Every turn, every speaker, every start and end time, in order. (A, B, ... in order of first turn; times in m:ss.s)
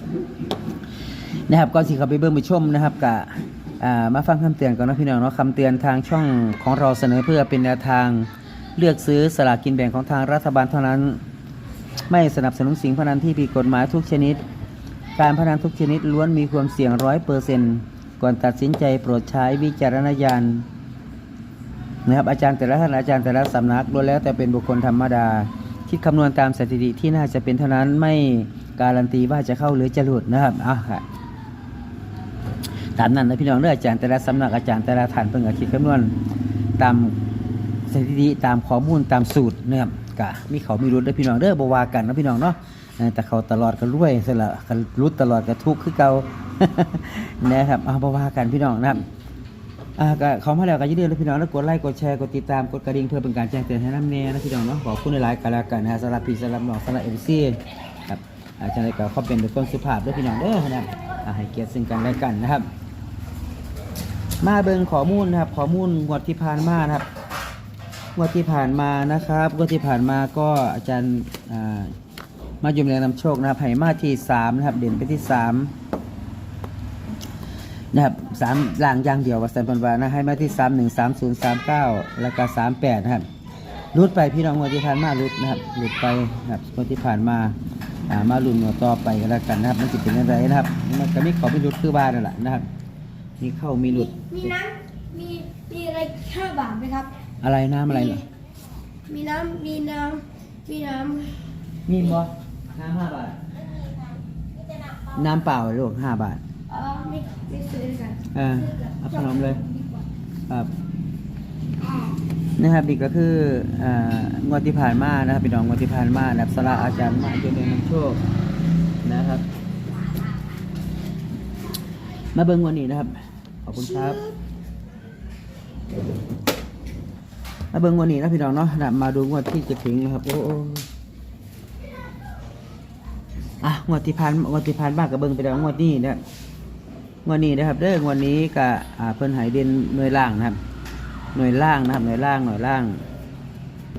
0:01.5-0:11.2 A
0:12.1-0:14.4 A
0:15.2-0:20.7 A
0:22.0-0:31.0 A
0:33.0-0:36.1 A
0:36.8-0:37.2 A
0:37.9-0:49.0 A
0:50.0-1:02.7 A
1:04.4-1:07.1 A
1:08.2-1:11.9 A
1:12.6-1:15.7 A
1:17.9-1:23.3 A
1:23.9-1:27.6 A
1:28.1-1:32.6 A
1:33.4-1:34.5 A
1:34.1-1:37.1 B
1:37.4-1:38.2 A
1:39.1-1:41.5 B
1:41.8-1:43.4 A
1:45.1-1:46.4 A
1:46.7-1:50.0 B
1:48.3-1:49.6 A
1:51.8-1:52.1 B
1:52.6-1:58.2 A
1:59.0-1:59.4 A
2:02.3-2:04.3 A
2:07.7-2:10.9 A
2:13.6-2:16.2 A
2:17.2-2:20.6 A
2:21.3-2:23.0 A